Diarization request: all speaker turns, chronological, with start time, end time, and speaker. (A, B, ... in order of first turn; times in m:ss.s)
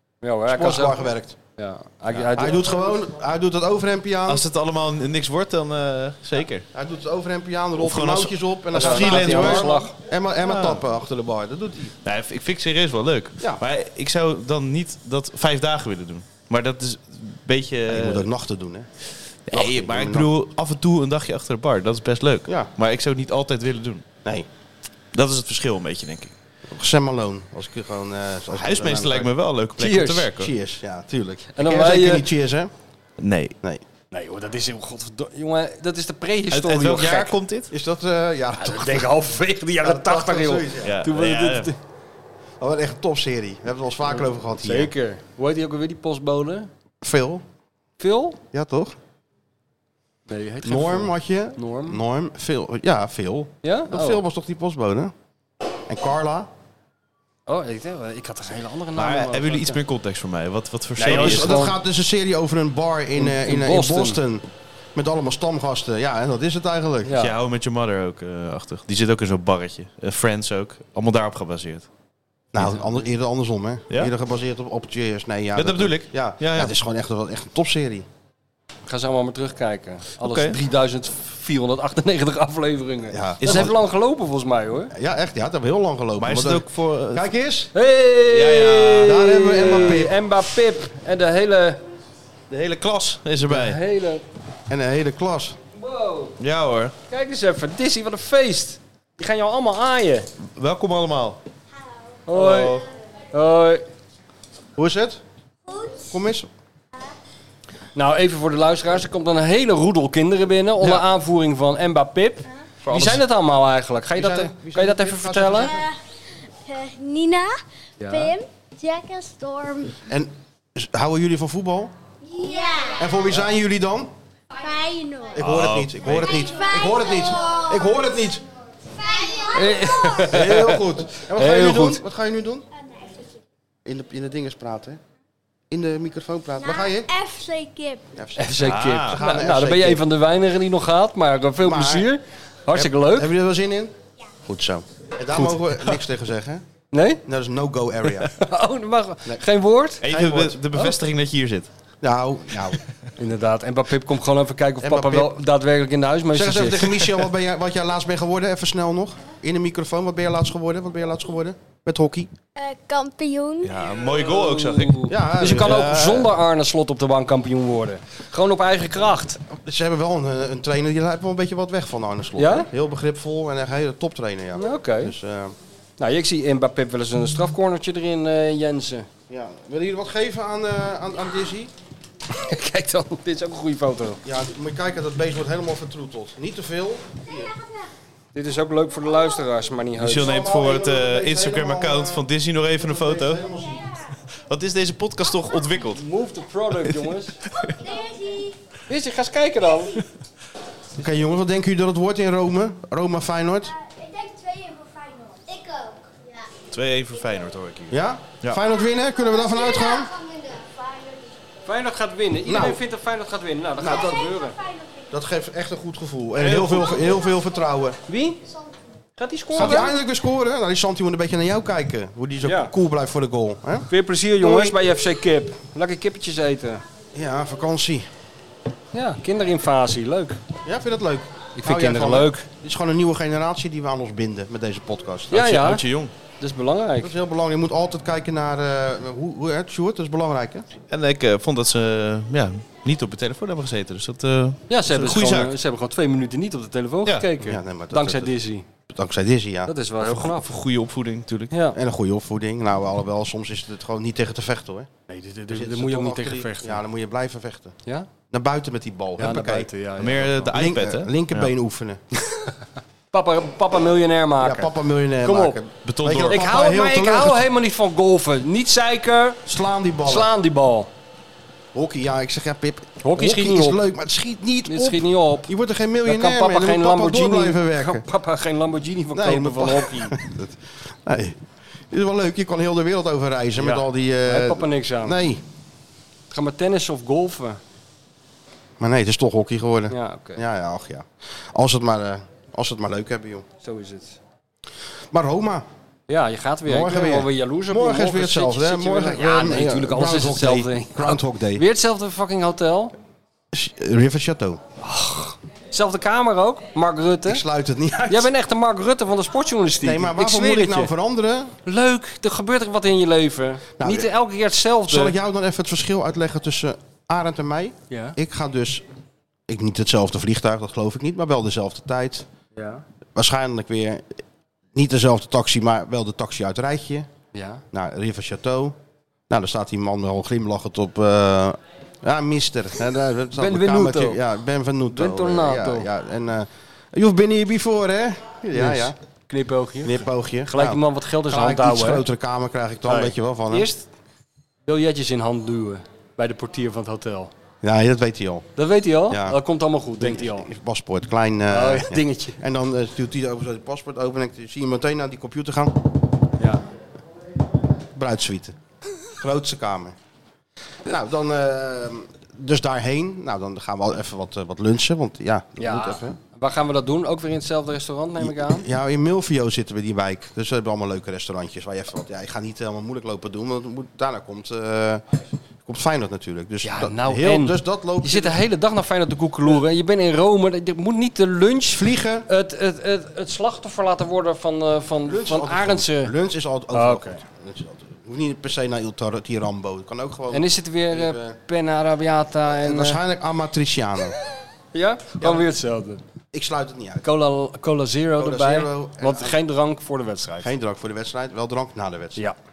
0:00.2-0:02.6 A
0:00.5-0:01.4 B
0:02.4-0:04.4 B
0:04.3-0:06.6 C
0:06.7-0:12.0 B
0:07.8-0:09.8 C
0:08.8-0:09.9 A
0:10.5-0:10.8 C
0:12.0-0:18.3 C
0:17.9-0:18.9 B
0:19.5-0:24.0 C
0:19.5-0:20.3 B
0:25.1-0:26.3 C
0:26.7-0:29.3 B
0:28.6-0:30.5 C
0:29.8-0:30.3 A
0:30.3-0:32.7 B
0:31.6-0:32.3 A
0:33.2-0:33.6 C
0:34.1-0:37.3 A
0:36.5-0:37.7 C
0:37.7-0:39.1 B
0:38.6-0:41.8 A
0:39.8-0:40.9 B
0:40.8-0:41.7 C
0:42.6-0:44.9 B
0:44.1-0:46.7 A
0:47.0-0:47.4 B
0:48.0-0:48.4 A
0:48.5-0:49.0 B
0:50.3-0:52.0 A
0:50.6-0:55.1 B
0:53.6-0:54.2 A
0:55.9-0:56.5 B
0:57.5-0:59.8 A
0:59.0-1:01.6 C
1:01.0-1:01.8 A
1:01.0-1:07.1 B
1:03.2-1:04.2 A
1:07.1-1:07.3 A
1:07.2-1:11.9 C
1:12.5-1:18.1 B
1:15.6-1:16.7 C
1:18.9-1:24.9 A
1:20.2-1:20.6 C
1:23.1-1:23.7 B
1:23.4-1:23.7 C
1:24.9-1:27.7 B
1:26.2-1:27.3 C
1:27.8-1:31.8 A
1:28.3-1:29.1 C
1:29.0-1:30.2 B
1:32.5-1:33.8 C
1:33.5-1:34.2 A
1:34.7-1:35.6 B
1:35.8-1:36.4 A
1:36.4-1:36.9 C
1:37.1-1:40.3 A
1:40.6-1:41.4 C
1:42.3-1:43.8 A
1:42.3-1:42.8 C
1:44.8-1:45.2 B
1:45.7-1:46.1 D
1:46.1-1:46.5 B
1:48.0-1:55.8 A
1:52.8-1:53.2 C
1:54.2-1:55.9 B
1:56.7-2:00.0 D
1:58.0-1:58.3 A
2:00.1-2:01.9 B
2:02.3-2:03.3 D
2:03.0-2:04.1 B
2:04.6-2:05.4 D
2:05.4-2:08.4 B
2:05.4-2:06.4 C
2:06.0-2:08.3 D
2:08.9-2:10.3 D
2:09.5-2:12.0 A
2:10.2-2:12.6 B
2:13.8-2:15.0 B
2:15.7-2:17.1 B
2:16.6-2:18.0 D
2:18.2-2:20.0 B
2:18.4-2:23.3 A
2:18.6-2:19.2 C
2:21.6-2:22.1 B
2:22.7-2:23.9 B
2:24.4-2:26.6 B
2:26.9-2:27.2 A
2:27.2-2:28.3 B
2:28.3-2:30.1 A
2:30.0-2:31.7 C
2:30.1-2:30.6 B
2:32.0-2:32.8 B
2:33.2-2:37.0 A
2:34.8-2:35.4 B
2:36.3-2:42.3 B
2:42.6-2:43.7 D
2:43.6-2:45.7 C
2:44.1-2:49.4 A
2:45.1-2:46.3 B
2:49.5-2:55.6 B
2:52.4-2:52.7 A
2:54.6-2:55.1 A
2:56.0-2:59.1 A
2:59.3-3:01.7 B
3:02.3-3:04.2 A
3:04.2-3:07.5 B
3:07.3-3:07.8 D
3:08.3-3:10.3 A
3:10.0-3:13.5 C
3:10.2-3:12.3 B
3:12.8-3:13.9 B
3:14.3-3:16.0 C
3:15.9-3:17.4 A
3:16.9-3:17.8 C
3:17.8-3:18.6 D
3:18.9-3:20.0 A
3:21.0-3:23.7 B
3:23.8-3:26.5 D
3:26.7-3:28.6 C
3:27.9-3:30.1 B
3:28.8-3:31.4 D
3:31.6-3:34.6 A
3:32.5-3:32.8 B
3:33.8-3:34.2 B
3:33.8-3:35.1 D
3:35.1-3:38.0 B
3:36.4-3:37.1 A
3:38.1-3:38.4 A
3:39.2-3:39.9 A
3:39.5-3:44.8 B
3:42.4-3:42.7 A
3:43.9-3:46.8 A
3:47.1-3:48.1 B
3:48.9-3:50.4 A
3:50.6-3:55.4 B
3:51.6-3:52.5 A
3:55.3-3:55.8 A
3:55.4-3:56.1 C
3:56.4-3:57.1 A
3:57.0-4:00.7 B
4:00.9-4:05.5 C
4:04.7-4:08.7 A
4:07.4-4:08.3 B
4:08.9-4:09.7 B
4:09.7-4:10.5 A
4:10.0-4:11.5 C
4:11.5-4:11.8 A
4:11.8-4:14.9 B
4:15.1-4:16.8 A
4:15.5-4:17.7 B
4:18.3-4:19.7 B
4:19.2-4:20.6 A
4:20.0-4:21.5 C
4:20.5-4:22.0 B
4:23.1-4:24.7 A
4:24.4-4:27.5 B
4:25.2-4:25.6 A
4:25.8-4:26.4 C
4:26.3-4:29.4 A
4:29.5-4:30.3 B
4:30.0-4:30.9 A
4:31.7-4:38.1 B
4:33.0-4:33.8 A
4:34.7-4:35.5 A
4:36.1-4:40.2 A
4:39.1-4:41.4 B
4:41.9-4:45.4 B
4:43.6-4:45.2 A
4:46.3-4:47.6 A
4:48.8-4:53.5 B
4:49.9-4:50.4 A
4:53.6-4:54.2 A
4:55.1-4:55.6 B
4:56.1-5:02.9 A
4:56.7-5:01.6 B
5:03.5-5:04.6 B
5:04.8-5:07.4 A
5:07.3-5:08.3 B
5:08.0-5:10.9 A
5:09.8-5:11.6 B
5:11.7-5:15.2 A
5:13.8-5:14.1 B
5:14.9-5:18.8 B
5:17.9-5:18.2 A
5:19.5-5:22.3 B
5:22.6-5:22.8 A
5:23.2-5:24.1 B
5:24.7-5:27.1 B
5:27.3-5:27.6 A
5:27.7-5:28.8 B
5:29.3-5:39.0 B
5:33.4-5:34.2 A
5:34.9-5:35.9 A
5:38.5-5:42.0 A
5:39.8-5:43.7 B
5:42.9-5:43.9 A
5:44.7-5:47.3 A
5:47.6-5:48.5 B
5:48.6-5:50.5 A
5:49.1-5:49.4 B
5:50.0-5:55.8 B
5:51.5-5:52.4 A
5:57.9-5:58.6 B
5:59.2-6:00.0 B
6:00.8-6:06.2 B
6:05.6-6:08.7 A
6:08.2-6:15.0 B
6:15.7-6:18.4 B
6:16.6-6:26.1 A
6:21.7-6:22.3 B
6:25.1-6:31.4 B
6:26.7-6:27.2 A
6:30.3-6:33.0 A
6:32.5-6:34.2 B
6:34.7-6:36.0 A
6:35.2-6:35.5 B
6:36.3-6:37.1 B
6:37.0-6:40.5 A
6:38.2-6:39.4 B
6:40.4-6:42.2 B